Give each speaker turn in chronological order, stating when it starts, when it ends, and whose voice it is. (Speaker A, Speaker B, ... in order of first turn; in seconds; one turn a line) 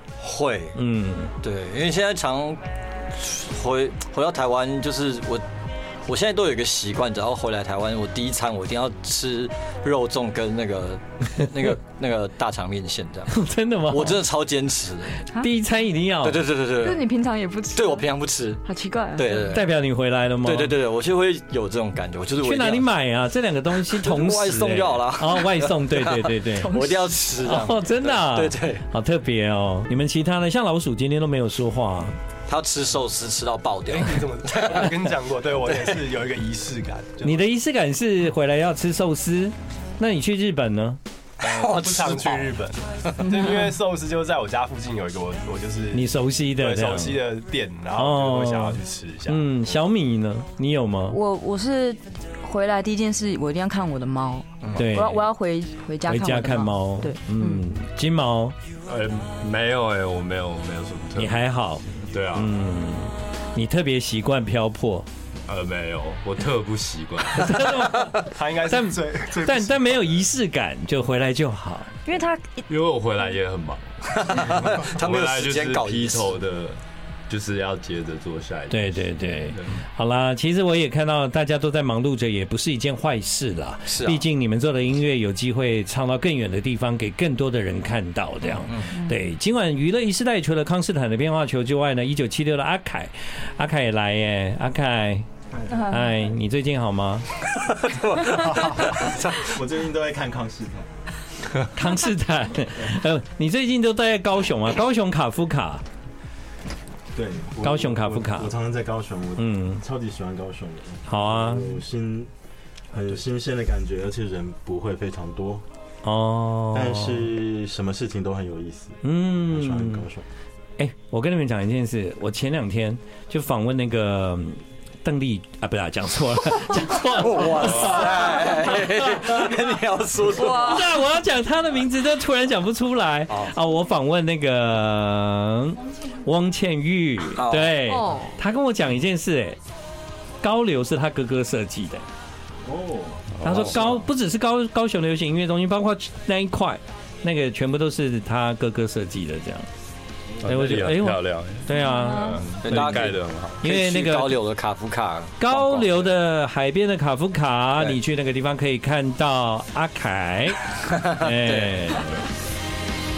Speaker A: 0.2-0.8
Speaker B: 0.8-1.3
Speaker A: 1.4-5.5
Speaker A: 6.1-13.4
Speaker B: 13.3-14.2
Speaker A: 13.9-15.2
Speaker B: 15.3-16.4
Speaker A: 16.2-17.1
Speaker C: 16.8-18.1
Speaker A: 17.8-18.6
Speaker C: 18.6-19.5
Speaker A: 19.2-19.8
Speaker B: 19.5-20.8
Speaker A: 20.4-22.9
Speaker B: 22.4-32.2
Speaker A: 23.9-28.9
Speaker C: 26.6-27.0
Speaker A: 32.5-35.1
Speaker D: 33.9-37.4
Speaker A: 35.7-36.0
Speaker B: 37.2-41.0
Speaker A: 41.4-43.4
Speaker D: 41.4-49.6
Speaker B: 45.9-47.2
Speaker B: 48.0-51.2
Speaker C: 51.1-57.6
Speaker B: 54.7-55.3
Speaker B: 56.0-58.6
Speaker E: 58.9-61.4
Speaker B: 61.2-65.1
Speaker E: 62.0-62.5
Speaker E: 65.5-67.7
Speaker B: 67.3-72.0
Speaker A: 67.8-68.3
Speaker D: 68.3-69.8
Speaker C: 72.1-72.7
Speaker E: 72.7-78.9
Speaker A: 74.1-76.4
Speaker B: 78.7-97.3
Speaker E: 79.5-79.8
Speaker A: 83.9-84.2
Speaker A: 88.7-89.0
Speaker F: 95.5-96.3
Speaker A: 97.5-99.6
Speaker F: 98.3-100.9
Speaker B: 101.7-105.8
Speaker F: 107.1-112.3
Speaker B: 107.6-108.5
Speaker B: 109.4-109.8
Speaker B: 111.1-111.8
Speaker F: 112.9-115.7
Speaker B: 116.0-117.3
Speaker F: 116.7-120.2
Speaker B: 119.0-120.1
Speaker B: 120.8-129.5
Speaker A: 127.1-130.9
Speaker C: 130.4-130.8
Speaker B: 130.4-139.6
Speaker A: 133.3-133.5
Speaker A: 137.3-137.8
Speaker C: 137.9-138.4
Speaker B: 140.4-142.1
Speaker F: 142.7-143.3
Speaker E: 143.4-144.0
Speaker B: 143.4-149.7
Speaker E: 150.4-153.6
Speaker B: 150.4-154.4
Speaker C: 151.8-152.4
Speaker A: 152.6-156.1
Speaker B: 155.4-162.2
Speaker A: 160.9-161.9